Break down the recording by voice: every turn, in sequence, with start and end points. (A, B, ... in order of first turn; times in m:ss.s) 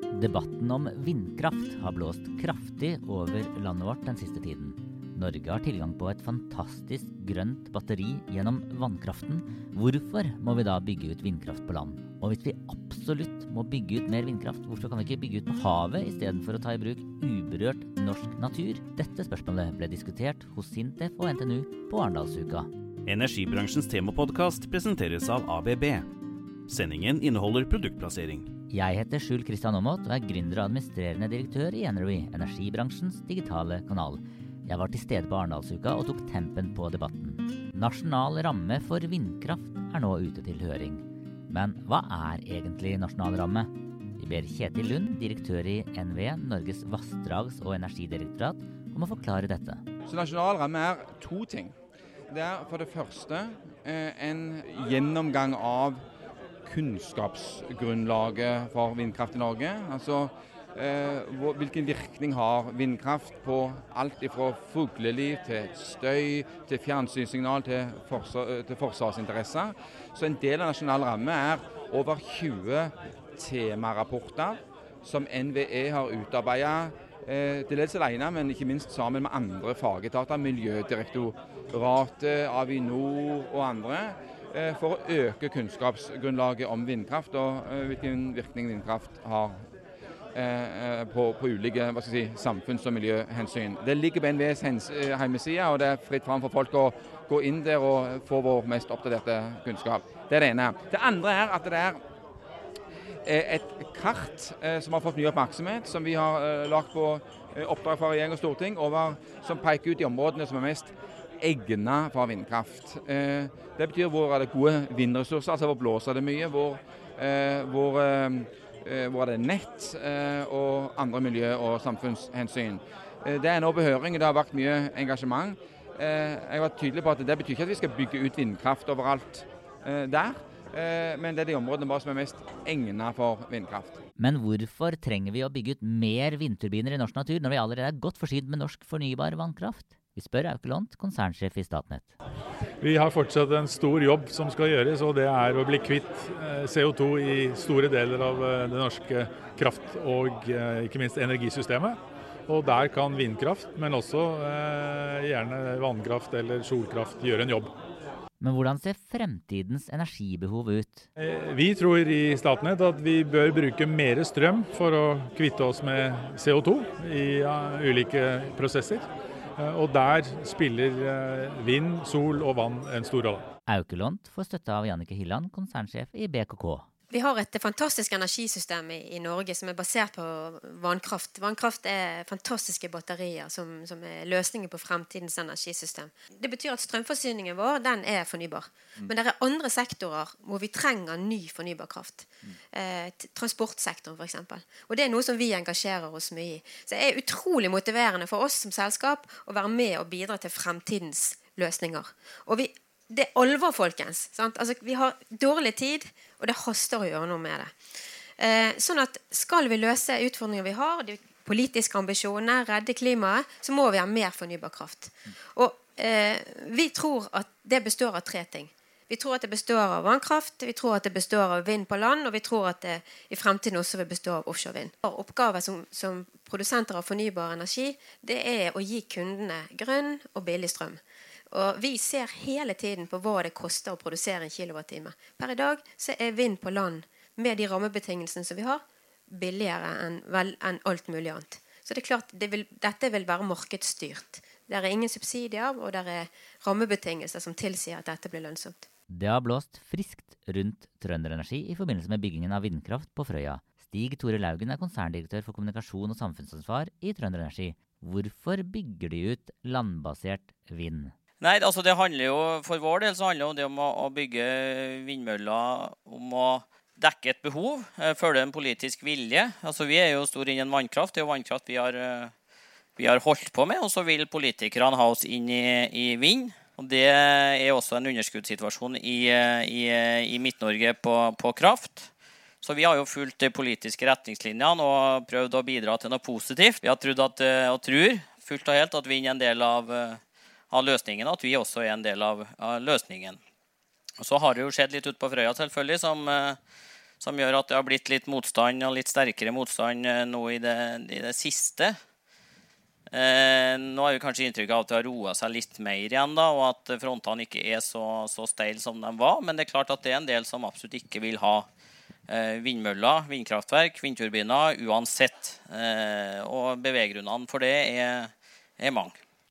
0:00.1-0:22.7 A
0:23.1-0:26.1 B
0:26.7-0:28.5 B
0:28.7-0:49.8 A
0:50.0-0:51.8 C
0:52.3-0:56.0 C
0:56.7-1:29.6 C
1:30.3-1:42.0 C
1:43.2-2:14.0 C
2:14.2-2:22.1 A
2:22.8-2:32.0 D
2:32.5-2:37.7 D
2:38.4-2:41.1 A
2:41.2-2:49.0 D
2:49.6-2:53.4 D
2:53.7-2:56.9 A
2:57.1-4:08.9 E
4:09.1-4:21.1 A
4:21.4-4:32.3 F
4:33.0-4:42.1 F
4:42.6-4:50.2 F
4:50.7-4:53.4 F
4:54.2-4:56.6 F
4:57.2-5:02.0 F
5:03.1-5:11.7 F
5:12.3-5:19.2 F